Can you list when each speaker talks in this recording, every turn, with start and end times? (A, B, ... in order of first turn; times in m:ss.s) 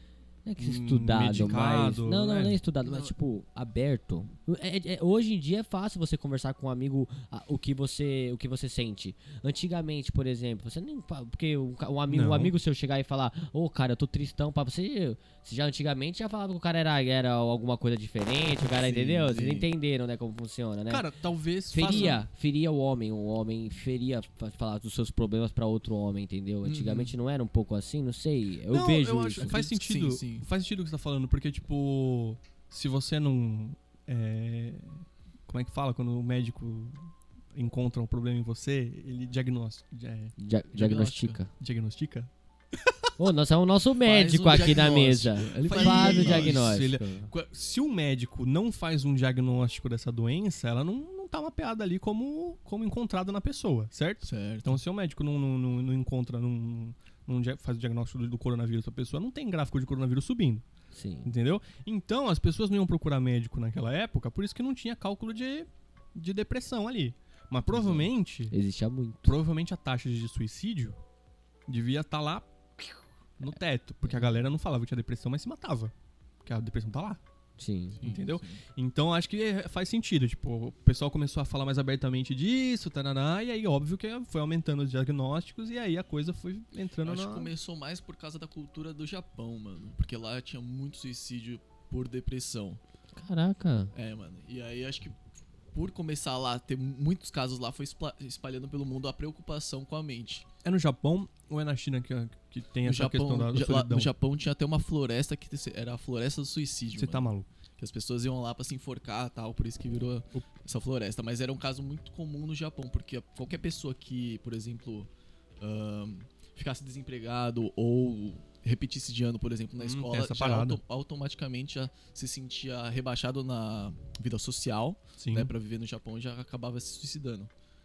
0:00.4-0:21.1 A
0:00.6-0:02.6 B
0:02.8-0:03.1 C
0:12.1-0:12.5 B
0:18.6-0:19.7 C
0:20.9-0:22.2 B
0:21.7-0:29.6 A
0:21.9-0:22.2 C
0:26.6-0:27.1 C
0:28.7-0:40.3 B
0:29.4-0:30.5 C
0:40.4-0:41.5 A
0:40.7-0:41.4 C
0:41.6-0:43.1 B
0:43.2-0:47.3 A
0:44.0-0:46.8 C
0:45.6-1:00.6 B
0:54.2-0:54.8 C
1:00.9-1:01.3 A
1:01.2-1:08.5 B
1:07.7-1:09.3 A
1:09.2-1:11.0 B
1:11.7-1:12.8 B
1:13.4-1:15.9 B
1:14.0-1:14.4 A
1:16.4-1:17.2 B
1:17.6-1:18.0 A
1:18.0-1:18.6 C
1:18.0-1:27.5 B
1:27.0-1:32.8 C
1:33.2-1:33.9 A
1:33.9-1:35.1 C
1:35.7-1:40.4 C
1:40.6-1:44.1 B
1:42.8-1:47.2 C
1:46.9-1:47.5 B
1:47.8-1:55.1 C
1:55.6-2:07.5 C
1:59.8-2:00.8 B
2:05.2-2:05.5 B